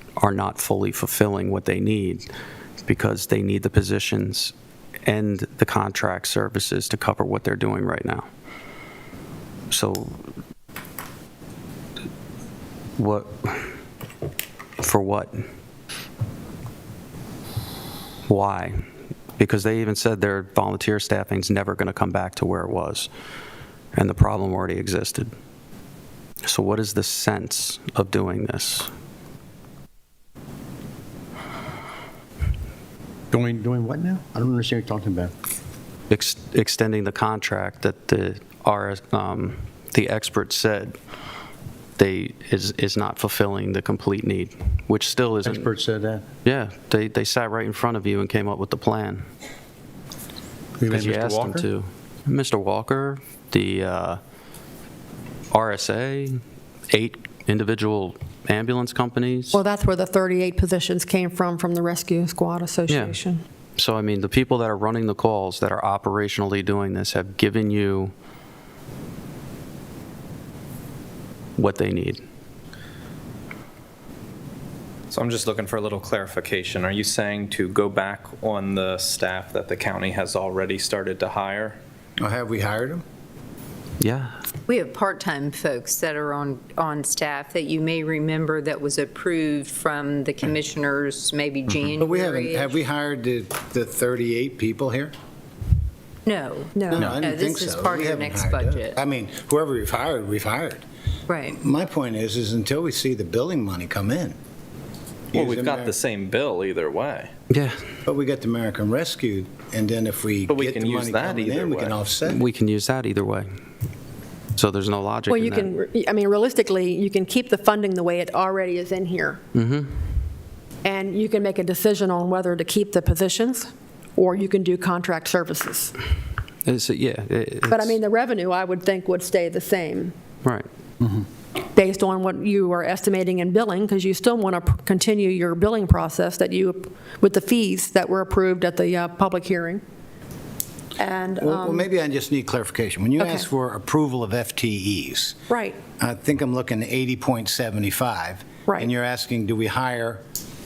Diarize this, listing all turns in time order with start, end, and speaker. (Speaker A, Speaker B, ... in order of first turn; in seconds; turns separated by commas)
Speaker A: 0.2-2.3, Speaker A: 2.9-4.5, Speaker A: 5.1-8.3, Speaker A: 9.7-10.2, Speaker A: 13.0-13.7, Speaker A: 14.8-15.4, Speaker A: 18.3-18.8, Speaker A: 19.4-23.1, Speaker A: 23.9-25.3, Speaker A: 26.4-28.9, Speaker B: 33.3-35.3, Speaker A: 36.1-41.0, Speaker A: 42.0-45.7, Speaker B: 45.4-46.3, Speaker A: 46.5-49.3, Speaker B: 50.8-51.7, Speaker A: 50.9-54.2, Speaker A: 55.5-56.4, Speaker A: 56.9-59.6, Speaker C: 59.5-63.4, Speaker A: 62.9-63.2, Speaker A: 63.8-68.1, Speaker A: 71.6-72.2, Speaker D: 75.1-81.8, Speaker E: 82.2-83.0, Speaker A: 84.0-84.3, Speaker F: 84.7-92.8, Speaker D: 85.5-92.6, Speaker E: 92.0-95.1, Speaker F: 96.3-96.6, Speaker C: 96.8-97.1, Speaker E: 96.9-100.8, Speaker B: 96.9-97.3, Speaker F: 97.2-99.0, Speaker D: 97.5-98.1, Speaker F: 101.3-101.6, Speaker E: 101.5-104.4, Speaker E: 105.3-106.0, Speaker D: 105.3-107.3, Speaker E: 108.1-112.4, Speaker D: 110.5-112.0, Speaker A: 112.3-113.5, Speaker A: 114.6-115.7, Speaker C: 115.3-119.4, Speaker A: 119.5-119.9, Speaker C: 120.8-125.9, Speaker A: 126.7-128.0, Speaker C: 127.7-130.2, Speaker C: 131.7-139.8, Speaker C: 141.0-141.9, Speaker E: 141.4-145.4, Speaker C: 143.2-143.5, Speaker C: 145.5-145.8, Speaker E: 145.9-150.2